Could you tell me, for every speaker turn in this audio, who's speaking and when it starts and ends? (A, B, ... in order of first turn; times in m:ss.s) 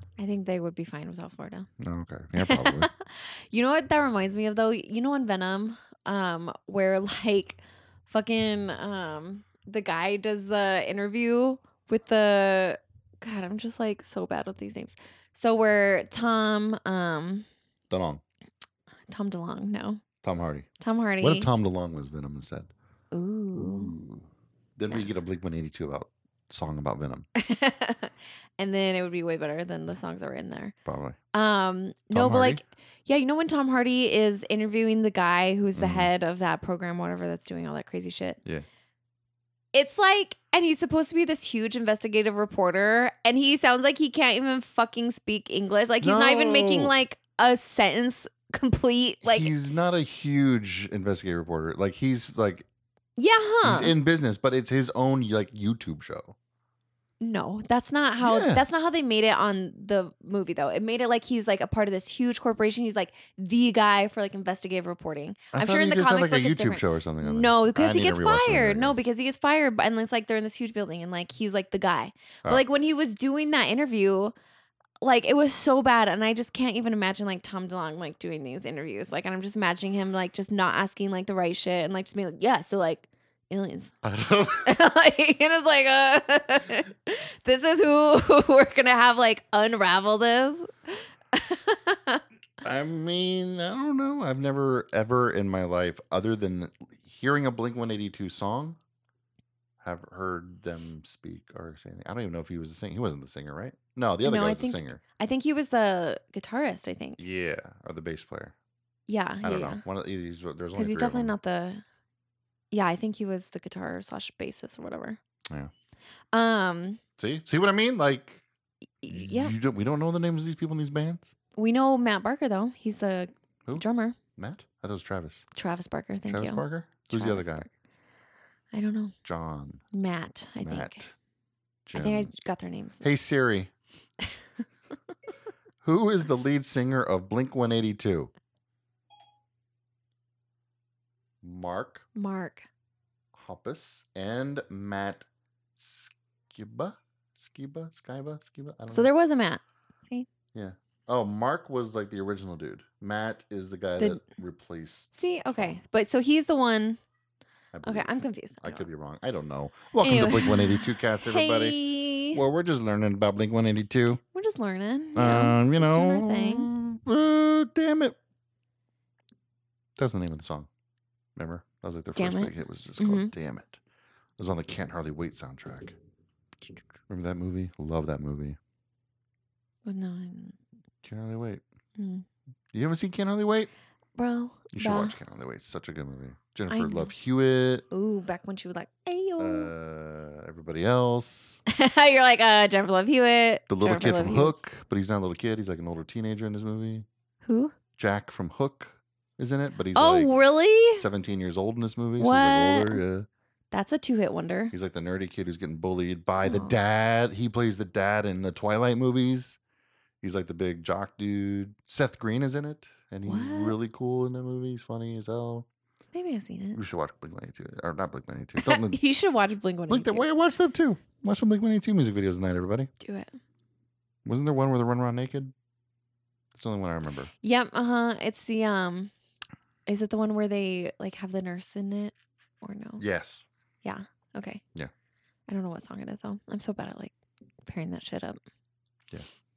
0:00.2-0:01.7 A
0:01.8-0:02.9 B
0:02.4-0:17.4 A
0:17.9-0:18.2 B
0:19.1-0:20.0 A
0:20.2-0:20.7 B
0:20.8-0:21.5 A
0:21.2-0:22.7 B
0:23.1-0:24.0 A
0:23.6-0:24.2 B
0:24.8-0:27.3 B
0:27.4-0:30.7 A
0:30.8-0:31.2 B
0:31.3-0:38.4 A
0:32.1-0:32.6 B
0:35.8-0:36.1 B
0:39.7-0:49.5 A
0:46.0-0:46.9 B
0:49.2-0:52.6 B
0:53.2-0:53.9 A
0:53.6-0:56.3 B
0:57.2-1:14.3 A
0:58.2-0:58.6 B
1:05.5-1:09.0 B
1:15.0-1:23.9 A
1:24.0-1:24.7 B
1:24.6-1:32.2 A
1:32.6-1:38.8 B
1:39.8-1:45.0 B
1:44.2-1:47.2 A
1:47.2-1:48.5 B
1:49.1-1:49.8 A
1:49.4-1:51.3 B
1:50.7-1:51.8 A
1:52.7-1:55.2 A
1:56.3-1:57.0 A
1:57.2-1:58.4 B
1:59.0-1:59.5 A
1:59.1-2:01.3 B
2:01.6-2:04.2 A
2:04.4-2:05.4 B
2:05.5-2:07.7 A
2:06.3-2:07.6 B
2:08.7-2:09.1 A
2:09.2-2:09.8 B
2:09.9-2:11.0 A
2:10.6-2:11.1 B
2:11.8-2:12.3 B
2:11.9-2:13.1 A
2:13.0-2:13.7 B
2:15.8-2:18.3 B
2:21.4-2:22.0 B
2:22.1-2:22.7 A
2:23.3-2:29.1 B
2:28.9-2:30.3 A
2:30.5-2:35.8 B
2:35.1-2:37.0 A
2:37.7-2:41.8 B
2:37.8-2:38.8 A
2:40.0-2:42.4 A
2:42.3-2:44.2 B
2:44.3-2:46.7 A
2:45.1-2:48.2 B
2:50.0-2:50.7 B
2:51.4-2:53.8 B
2:52.1-2:53.3 A
2:54.4-2:56.0 B
2:56.6-2:58.6 B
2:59.8-3:00.6 A
3:01.0-3:01.6 B
3:02.0-3:02.2 A
3:02.7-3:03.7 B
3:04.2-3:05.2 A
3:04.7-3:07.8 B
3:06.7-3:07.1 A
3:07.9-3:09.7 A
3:09.4-3:11.6 B
3:11.7-3:14.6 A
3:13.7-3:17.0 B
3:17.4-3:17.7 A
3:18.0-3:20.3 B
3:19.9-3:21.0 A
3:20.9-3:23.3 B
3:22.2-3:23.0 A
3:23.7-3:24.7 A
3:24.7-3:29.6 B
3:26.4-3:26.8 A
3:30.2-3:35.7 B
3:33.2-3:33.8 A
3:36.1-3:36.8 A
3:36.7-3:39.0 B
3:38.6-3:40.2 A
3:39.9-3:42.9 B
3:43.0-3:43.3 A
3:44.2-3:45.5 B
3:46.5-3:47.3 B
3:47.4-3:49.1 A
3:49.9-3:53.0 A
3:53.0-3:53.4 B
3:53.8-3:54.6 A
3:55.5-3:57.1 A
3:57.6-3:58.4 A